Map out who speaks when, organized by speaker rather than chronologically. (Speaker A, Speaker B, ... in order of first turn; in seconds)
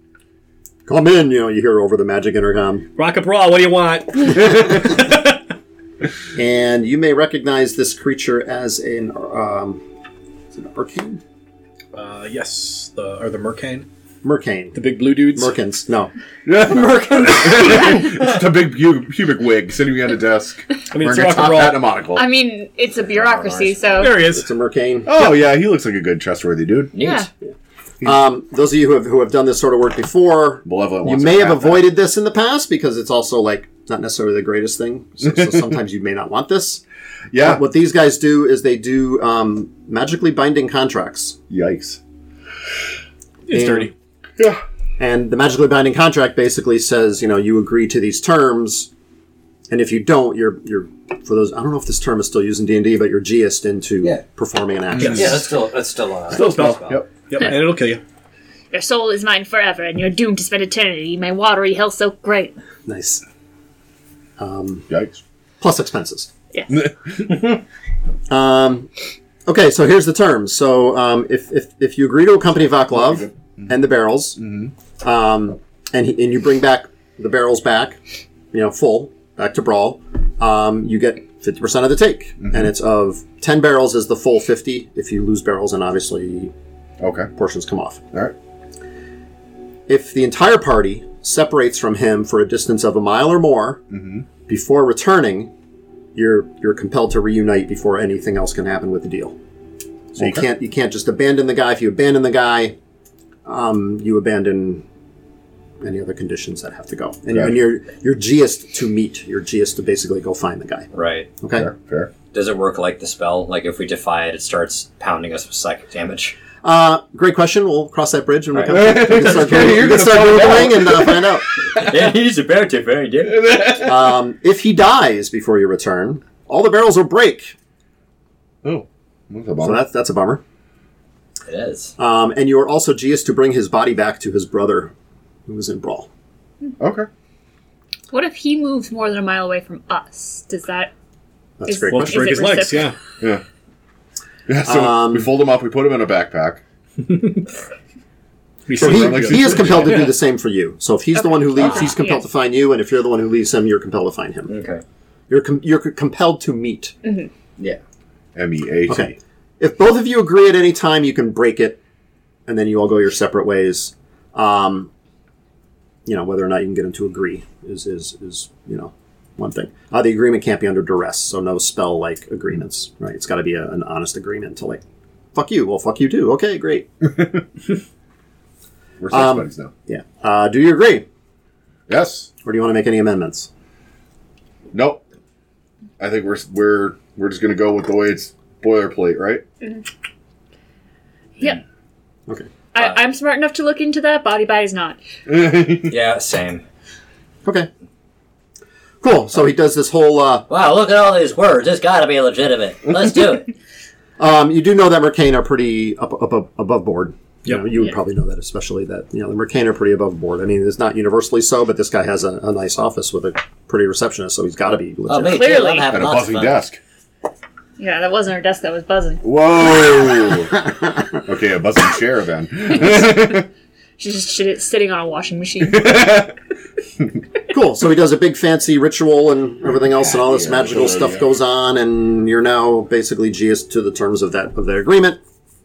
Speaker A: 0.9-2.9, 6.3-9.8, 10.5-11.2, 14.2-14.8, 15.3-16.1, 24.3-25.1, 28.0-36.8, 37.4-41.4, 43.5-43.9, 45.0-48.9, 49.7-55.5, 62.9-63.2, 64.4-64.9, 65.6-66.3, 68.3-68.9, 69.5-74.4, 75.0-78.0, 78.5-86.5, 87.3-88.0, 89.9-93.8, 94.5-95.5, 96.1-99.4, 100.1-102.8, 103.4-104.8, 105.8-110.9, 111.4-111.7, 116.6-121.5, 123.8-127.5, 129.6-130.4, 132.0-134.9, 135.5-136.1, 141.6-142.6, 144.6-145.3, 148.7-154.5, 155.3-156.9, 158.9-161.8, 162.5-164.9, 166.1-174.8, 175.3-176.9, 179.1-181.1, 182.4-183.5, 199.0-200.4, 204.2-215.5, 227.5-235.2
Speaker B: 3.0-5.4, 11.9-13.9, 14.7-15.5, 20.9-21.9, 24.0-24.5, 43.5-43.9, 55.0-55.3, 56.4-58.0, 141.8-142.9, 147.0-147.5, 148.7-150.1
Speaker C: 16.4-22.2, 25.1-26.9, 30.6-31.9, 37.3-37.6, 41.5-42.0, 44.4-44.6, 55.0-55.4, 56.3-57.1, 64.9-65.2, 66.7-67.6, 72.9-73.7, 74.4-74.7, 82.4-82.7, 87.0-87.3, 93.9-94.3, 100.2-100.4, 111.5-112.1, 118.7-121.8, 123.3-124.0, 128.6-129.8, 136.8-137.1, 144.5-146.6, 148.7-150.1, 158.3-159.1, 177.0-177.4, 179.0-179.7, 181.9-182.3, 184.7-185.0, 186.0-189.4, 195.3-195.9, 215.9-216.8, 219.2-223.5, 225.6-226.3, 230.1-231.2
Speaker D: 22.1-24.2, 27.0-27.3, 58.7-62.6, 138.1-140.9, 141.7-142.9, 151.5-152.2, 157.0-157.3, 192.7-195.0, 215.2-216.0, 217.8-219.2, 224.0-226.1
Speaker E: 23.0-24.1, 26.9-27.3, 55.0-57.0, 110.9-111.3, 112.3-116.4, 121.7-123.5, 131.4-131.9, 154.5-154.8, 195.8-196.6
Speaker F: 200.5-203.5, 215.1-216.6